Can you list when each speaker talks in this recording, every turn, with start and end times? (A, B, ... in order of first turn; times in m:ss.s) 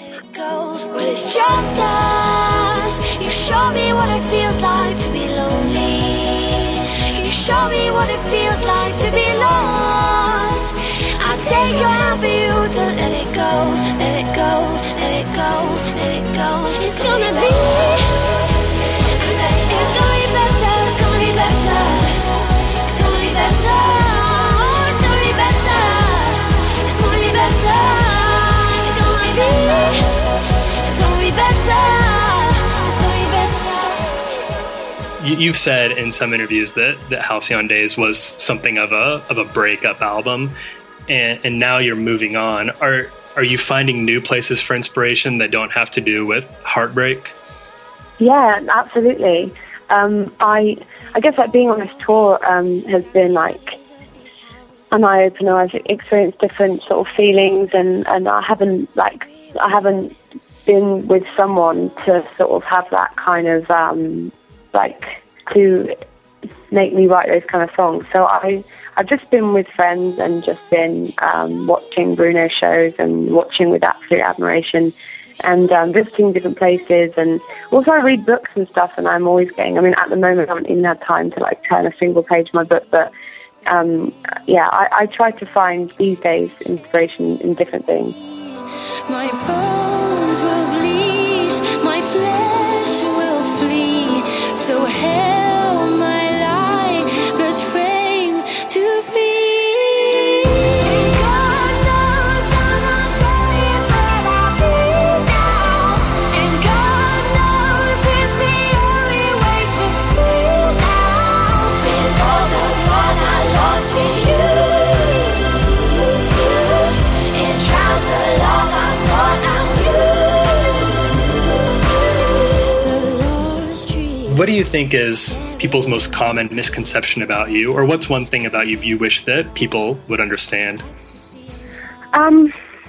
0:00.3-0:30.1 A
0:30.8-0:34.2 A
0:35.2-0:40.5 B
0:41.1-0:47.3 B
0:48.2-0:53.8 C
0:54.9-1:00.1 C
1:00.6-1:06.0 C
1:06.7-1:23.1 C
1:23.6-1:28.2 C
1:29.1-1:55.5 A
1:56.2-2:01.2 A
2:02.7-2:04.4 A
2:04.3-2:10.9 B
2:12.1-2:12.5 C